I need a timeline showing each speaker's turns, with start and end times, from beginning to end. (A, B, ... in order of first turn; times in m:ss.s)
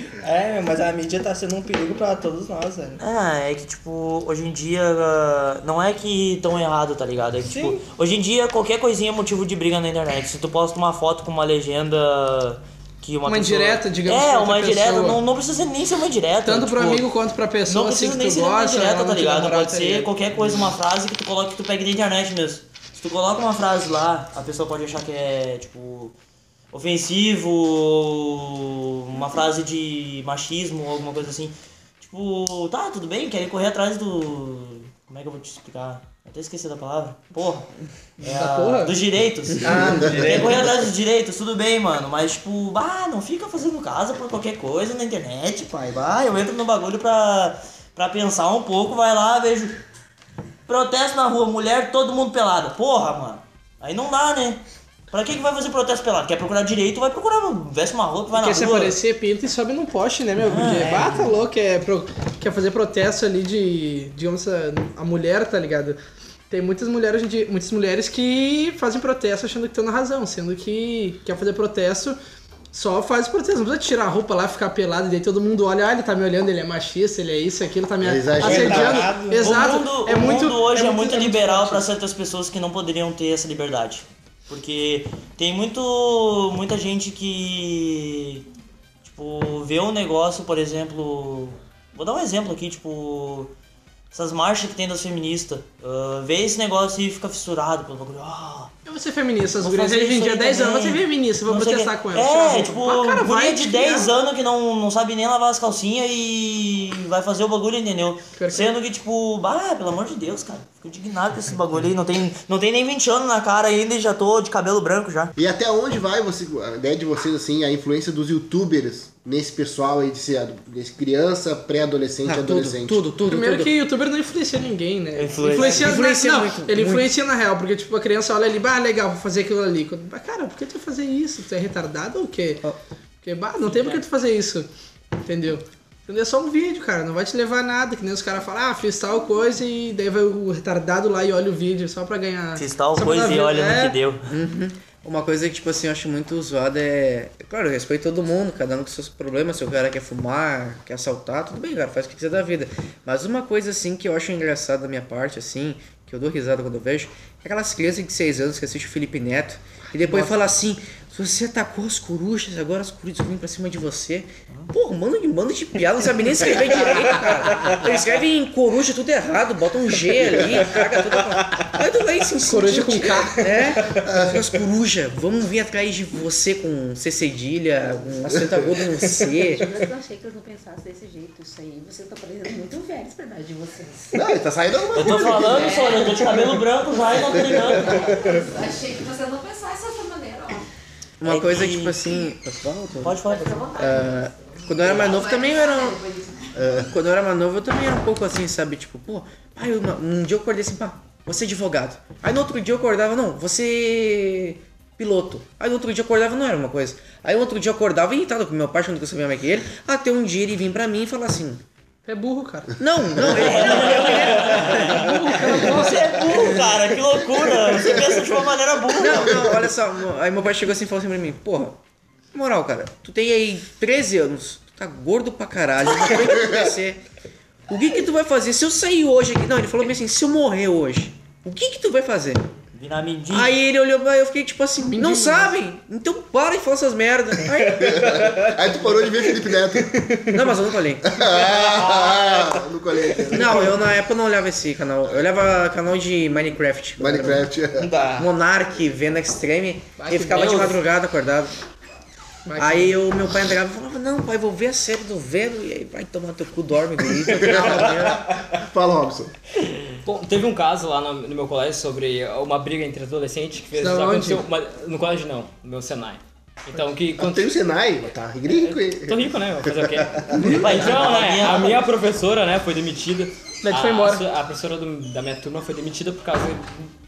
0:00.2-0:03.0 A
0:03.0-0:17.0 B
0:07.4-0:07.8 A
0:13.2-0:15.2 C
0:16.4-0:20.1 C
0:17.7-0:26.1 B
0:26.7-0:37.7 B
0:38.2-0:49.8 B
0:38.2-0:39.0 C
0:39.6-0:40.7 A
0:39.7-0:40.2 D
0:50.7-0:59.0 B
0:58.3-1:06.0 C
1:00.4-1:01.2 B
1:00.8-1:01.3 A
1:06.5-1:12.2 C
1:12.7-1:21.8 C
1:18.0-1:19.1 D
1:18.4-1:19.6 A
1:19.4-1:28.5 B
1:29.0-1:33.5 B
1:34.1-1:38.7 B
1:38.8-1:44.1 C
1:39.6-1:55.3 B
1:48.3-1:48.7 C
1:55.4-2:03.1 D
2:02.2-2:03.7 E
2:03.2-2:12.7 C
2:05.2-2:05.9 B
2:05.5-2:07.1 E
2:13.2-2:14.7 C
2:13.7-2:14.0 F
2:15.2-2:24.0 C
2:22.6-2:24.3 B
2:24.3-2:59.7 E
2:47.0-2:47.8 A
2:52.4-2:53.4 C
2:54.0-2:54.4 D
2:59.5-3:04.2 G
3:04.1-3:05.8 D
3:04.9-3:08.1 B
3:05.2-3:06.5 G
3:07.4-3:10.6 G
3:11.2-3:13.2 E
3:11.2-3:12.0 B
3:13.0-3:13.6 B
3:13.2-3:16.6 G
3:13.7-3:16.0 E
3:16.6-3:16.9 D
3:16.7-3:31.6 E
3:32.0-3:32.8 C
3:32.8-3:35.5 E
3:33.2-3:33.5 D
3:33.2-3:39.5 B
3:34.0-3:36.3 C
3:39.0-3:41.8 E
3:42.3-3:47.0 E
3:47.7-3:52.5 E
3:52.7-3:53.6 B
3:53.3-3:58.3 E
3:54.9-3:55.5 C
3:57.8-4:00.0 D
4:00.3-4:01.3 E
4:01.0-4:03.8 D
4:03.3-4:07.5 E
4:07.0-4:07.9 D
4:07.8-4:08.3 A
4:08.1-4:11.5 E
4:10.0-4:10.8 C
4:10.3-4:10.7 F
4:12.4-4:13.0 C
4:12.6-4:18.2 E
4:17.2-4:19.3 D
4:20.0-4:27.5 F
4:23.8-4:24.4 C
4:27.2-4:30.6 D
4:28.5-4:36.9 F
4:30.4-4:31.8 B
4:33.6-4:34.2 C